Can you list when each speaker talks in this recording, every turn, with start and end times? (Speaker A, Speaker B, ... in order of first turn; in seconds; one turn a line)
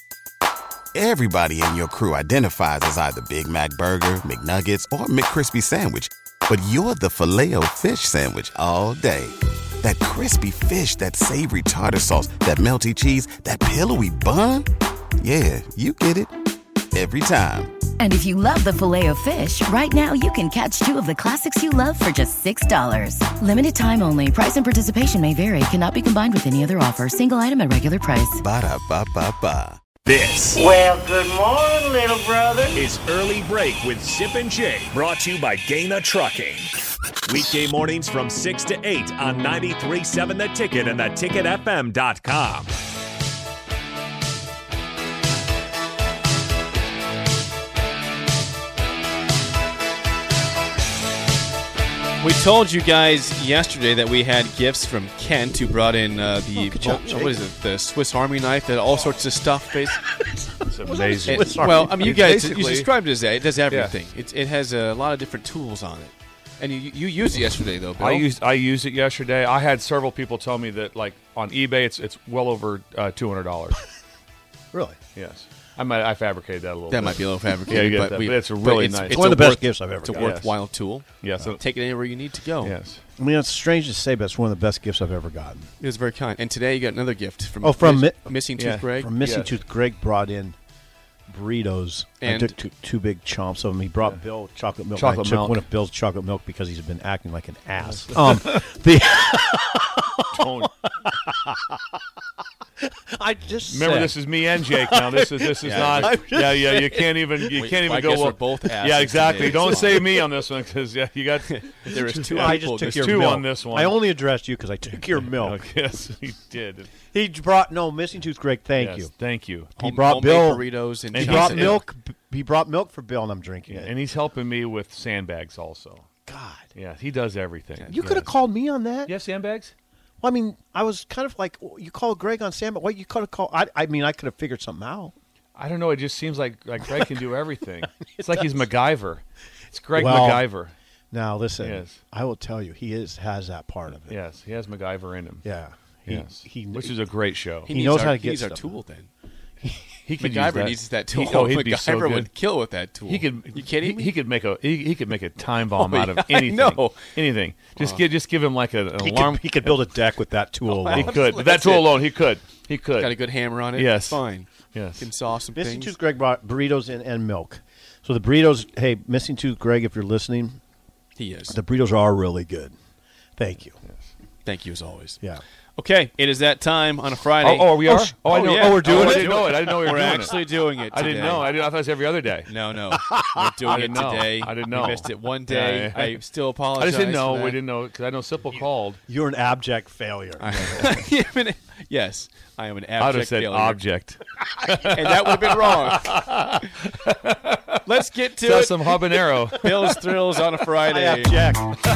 Speaker A: 0.9-14.7
Speaker A: 15.2-16.3
Speaker A: 16.9-17.7
Speaker B: 18.0-28.4
Speaker A: 28.4-29.8
Speaker C: 30.0-30.6
Speaker D: 30.5-32.8
Speaker C: 32.7-36.7
Speaker C: 37.2-42.7
Speaker E: 52.2-60.0
Speaker F: 56.5-57.4
Speaker F: 60.3-62.3
Speaker G: 60.7-62.9
Speaker E: 61.2-68.3
Speaker G: 68.0-73.8
Speaker F: 74.7-75.0
Speaker G: 75.1-79.5
Speaker E: 76.9-82.7
Speaker F: 79.1-80.4
Speaker G: 80.1-80.5
Speaker G: 81.2-81.6
Speaker G: 82.6-83.0
Speaker F: 83.2-85.7
Speaker E: 85.8-89.1
Speaker F: 87.6-88.3
Speaker G: 88.6-89.5
Speaker F: 89.0-90.5
Speaker F: 91.3-102.0
Speaker E: 92.2-92.5
Speaker G: 95.0-95.6
Speaker G: 97.8-98.7
Speaker G: 100.3-100.7
Speaker F: 102.8-107.6
Speaker G: 103.7-113.9
Speaker E: 105.6-106.2
Speaker E: 107.5-110.1
Speaker F: 109.3-110.2
Speaker E: 111.5-113.4
Speaker F: 112.3-115.6
Speaker G: 115.3-116.9
Speaker F: 117.1-119.1
Speaker G: 118.8-119.7
Speaker F: 119.8-120.6
Speaker E: 119.8-121.8
Speaker G: 121.1-121.8
Speaker F: 121.1-123.9
Speaker G: 123.7-126.0
Speaker F: 126.2-126.7
Speaker G: 126.7-128.3
Speaker F: 127.9-129.1
Speaker G: 129.1-129.7
Speaker F: 130.2-135.1
Speaker G: 135.6-140.7
Speaker F: 136.8-137.1
Speaker F: 138.1-138.6
Speaker F: 139.9-140.5
Speaker F: 141.1-144.2
Speaker G: 141.6-142.0
Speaker G: 144.1-145.4
Speaker F: 145.4-146.9
Speaker G: 146.1-147.7
Speaker F: 147.7-148.8
Speaker E: 147.7-149.1
Speaker G: 150.1-152.3
Speaker E: 150.2-154.1
Speaker G: 153.1-159.8
Speaker E: 155.8-157.1
Speaker E: 157.7-158.0
Speaker F: 159.0-161.4
Speaker E: 160.7-162.0
Speaker G: 160.9-163.2
Speaker E: 163.0-165.9
Speaker G: 163.7-164.2
Speaker G: 164.7-165.1
Speaker F: 165.6-170.6
Speaker E: 171.2-171.6
Speaker F: 171.5-172.7
Speaker F: 173.4-173.8
Speaker E: 174.4-175.2
Speaker E: 175.8-181.6
Speaker G: 177.4-180.4
Speaker F: 177.9-180.2
Speaker G: 180.9-182.5
Speaker E: 182.5-187.6
Speaker F: 182.9-183.9
Speaker G: 183.7-186.2
Speaker G: 186.8-189.0
Speaker F: 189.1-191.0
Speaker E: 190.4-193.8
Speaker G: 193.0-197.8
Speaker E: 194.9-196.3
Speaker E: 197.8-201.4
Speaker G: 198.4-199.9
Speaker F: 200.8-201.7